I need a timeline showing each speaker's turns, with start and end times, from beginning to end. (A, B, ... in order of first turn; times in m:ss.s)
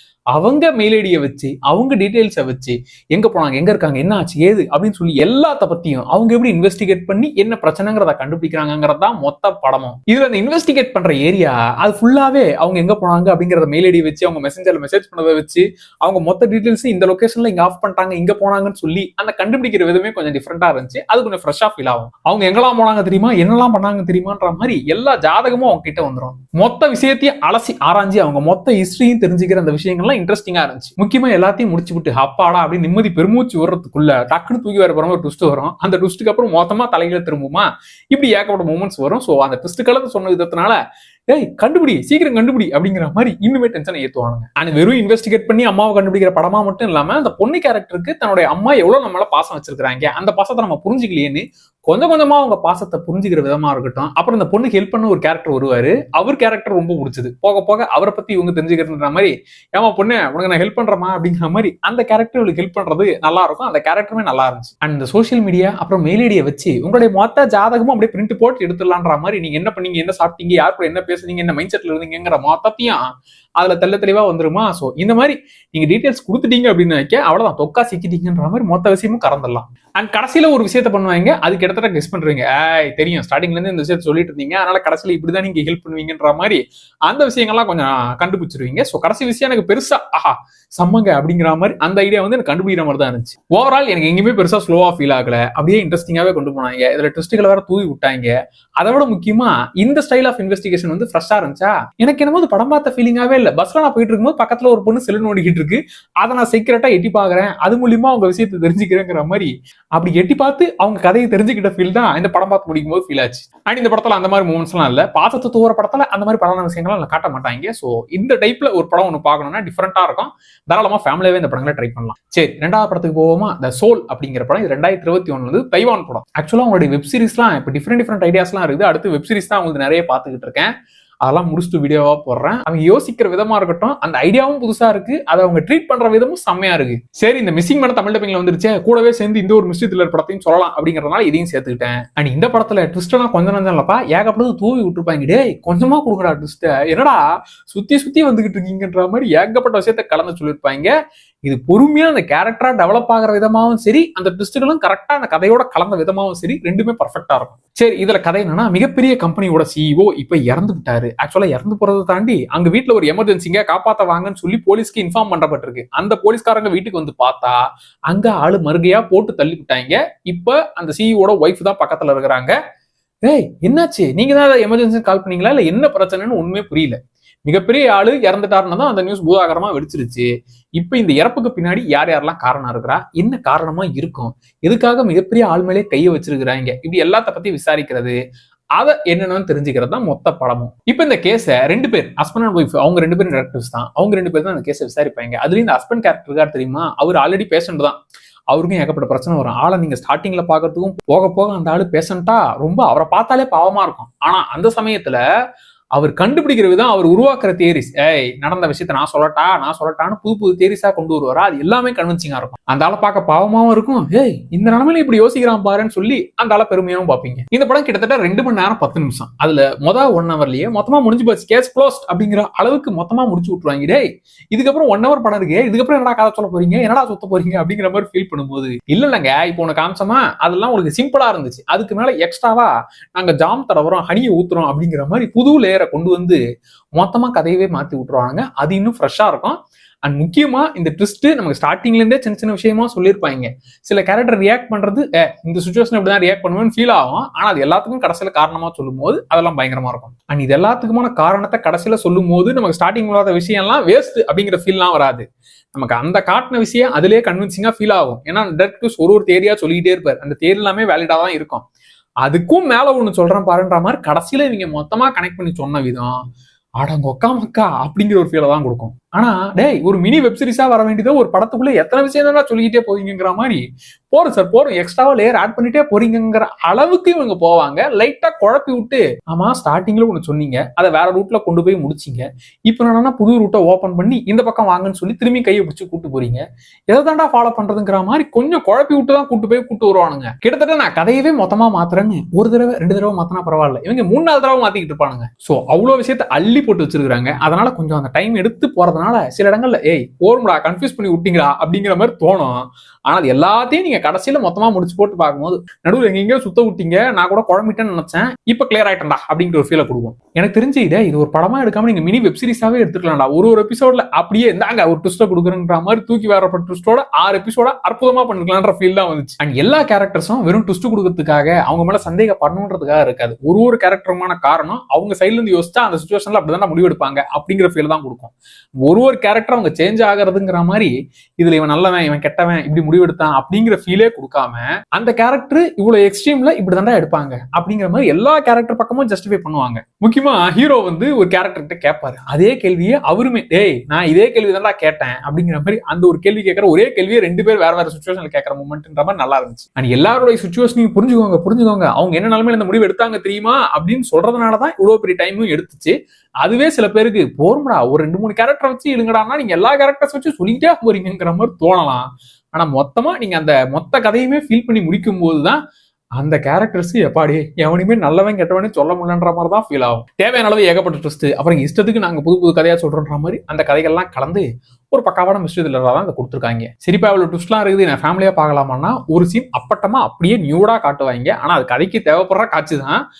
0:00.3-0:40.8 A
0:41.3-1:13.0 A
1:13.6-2:10.7 A
2:11.2-2:27.2 A
2:27.7-2:30.9 A
2:31.5-2:47.6 A
2:48.1-2:52.5 A
2:53.2-3:00.3 A
3:00.8-3:08.2 A
3:08.8-3:18.0 A
3:18.5-3:25.2 A
3:26.0-3:56.4 A
3:57.0-4:21.6 A
4:22.2-4:26.1 A
4:26.8-4:33.6 A
4:34.1-5:28.3 A
5:28.9-6:05.6 A
6:06.2-6:23.0 A